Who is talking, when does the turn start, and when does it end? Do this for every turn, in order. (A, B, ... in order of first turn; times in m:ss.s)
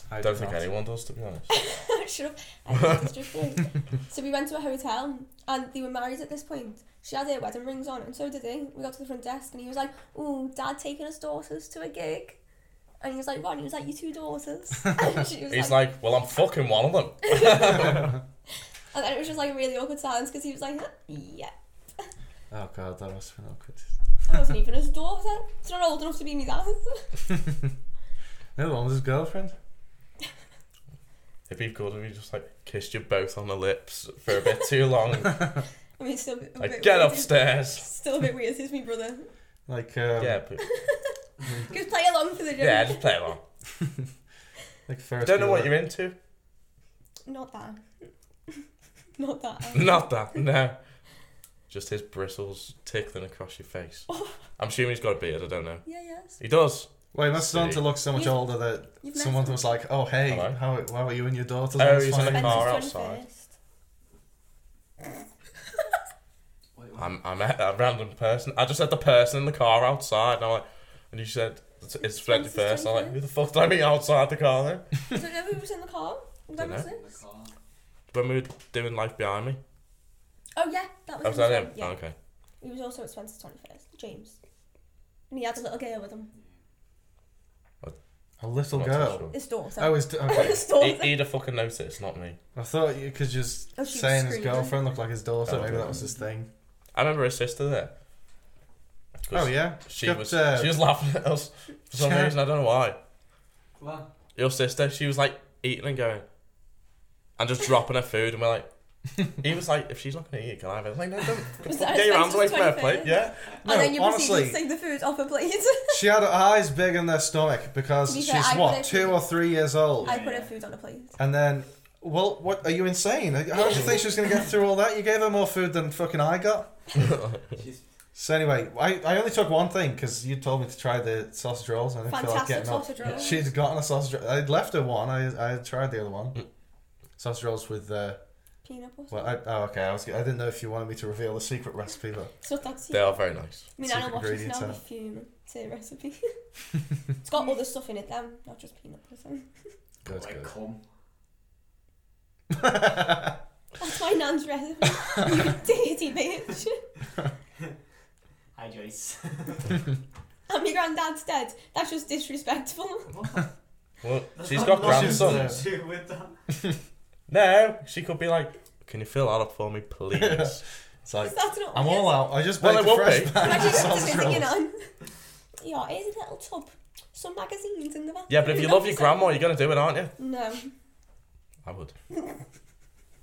0:00.1-0:00.7 A
0:00.2-0:01.5 B
0:01.5-0:12.4 C
0:13.0-0:15.8 C
0:15.5-0:18.2 B
0:17.3-0:18.0 C
0:18.9-0:22.1 C
0:22.5-0:23.9 A
0:24.3-0:27.0 C
0:28.6-0:29.6 A
0:31.5-0:35.5 B
0:36.0-0:39.3 C
0:36.6-0:37.9 B
0:39.7-0:40.4 A
0:40.2-0:40.6 B
0:40.6-0:43.1 C
0:42.6-0:43.4 B
0:44.9-0:45.7 A
0:45.2-0:46.2 B
0:47.2-0:48.6 C
0:49.2-0:50.0 C
0:49.7-0:50.8 B
0:51.7-0:55.8 B
0:54.1-0:54.4 C
0:55.8-0:56.4 C
0:56.4-0:57.8 B
0:57.1-1:02.8 A
0:58.1-0:59.6 C
1:00.2-1:00.6 B
1:01.8-1:03.2 B
1:02.2-1:03.5 C
1:06.8-1:07.2 D
1:07.0-1:14.8 B
1:12.0-1:13.2 C
1:15.1-1:17.0 C
1:16.6-1:16.9 B
1:16.7-1:17.5 D
1:18.1-1:19.6 B
1:20.6-1:22.0 C
1:21.2-1:22.1 B
1:22.6-1:24.4 C
1:25.3-1:26.3 C
1:28.4-1:30.6 A
1:28.7-1:29.3 B
1:29.3-1:31.2 C
1:30.3-1:32.4 B
1:32.5-1:36.5 A
1:33.8-1:34.8 C
1:35.4-1:36.0 B
1:36.9-1:37.9 B
1:39.2-1:43.0 B
1:39.3-1:40.8 A
1:41.9-1:42.3 A
1:43.8-1:44.1 D
1:44.4-1:46.2 B
1:47.4-1:48.7 B
1:49.3-1:53.4 B
1:51.6-1:56.0 C
1:53.6-1:54.6 A
1:55.9-2:00.2 A
1:58.0-1:59.3 C
2:00.0-2:00.5 D
2:00.0-2:01.2 C
2:01.2-2:06.8 A
2:07.5-2:07.8 D
2:08.1-2:16.4 A
2:12.0-2:13.5 C
2:17.2-2:18.2 A
2:18.6-2:19.4 C
2:19.1-2:22.3 A
2:22.4-2:26.3 C
2:22.9-2:23.7 B
2:23.8-2:24.8 A
2:27.2-2:29.5 C
2:30.0-2:30.5 A
2:30.1-2:30.8 D
2:32.6-2:33.3 A
2:33.8-2:36.8 C
2:38.5-2:39.8 D
2:40.5-2:43.1 C
2:43.1-2:43.5 D
2:44.0-2:45.6 B
2:44.4-2:46.4 D
2:44.8-2:45.6 A
2:47.3-2:50.6 B
2:50.1-2:54.5 A
2:51.2-2:52.3 C
2:52.6-2:53.9 B
2:53.3-2:54.9 C
2:55.6-2:59.5 C
2:58.3-3:00.1 B
3:00.2-3:00.7 C
3:01.6-3:01.9 B